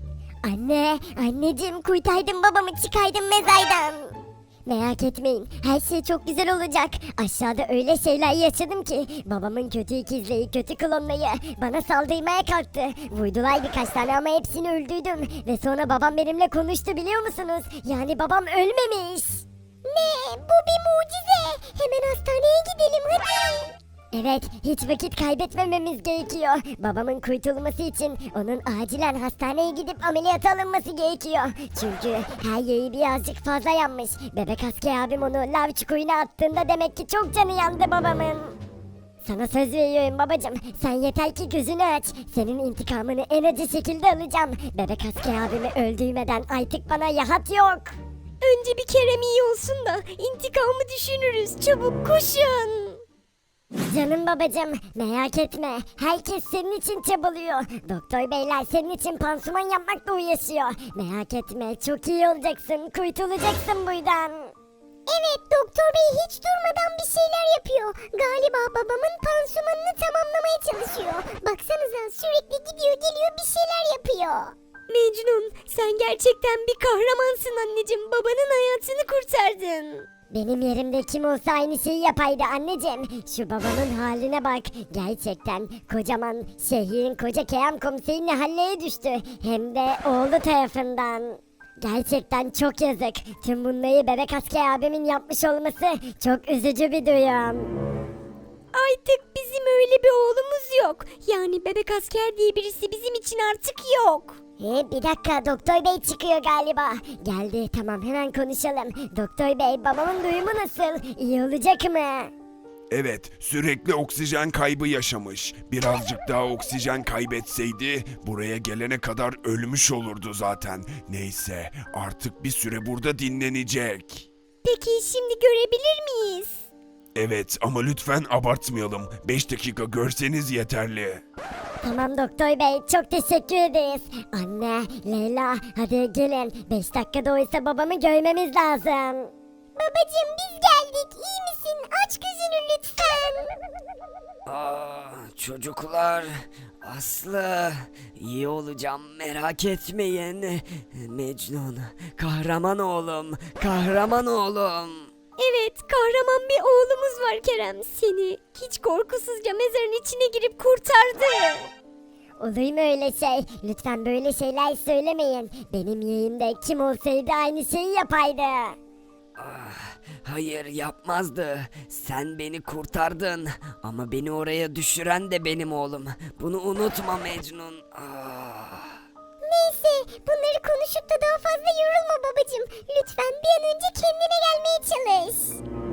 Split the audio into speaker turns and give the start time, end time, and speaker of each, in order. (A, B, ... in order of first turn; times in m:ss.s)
0:00.4-0:38.6 A
0:39.2-0:48.0 A
0:48.4-0:53.0 B
0:53.8-1:04.5 A
1:05.1-1:14.5 A
1:14.9-1:20.0 B
1:20.3-1:37.7 A
1:38.7-1:44.4 B
1:44.6-1:52.3 A
1:52.9-2:04.3 C
2:04.6-2:06.6 B
2:07.2-2:11.2 C
2:11.8-2:23.5 A
2:24.5-2:35.1 D
2:35.4-2:41.7 B
2:42.4-2:48.8 A
2:49.4-2:59.0 D
2:59.5-3:05.6 A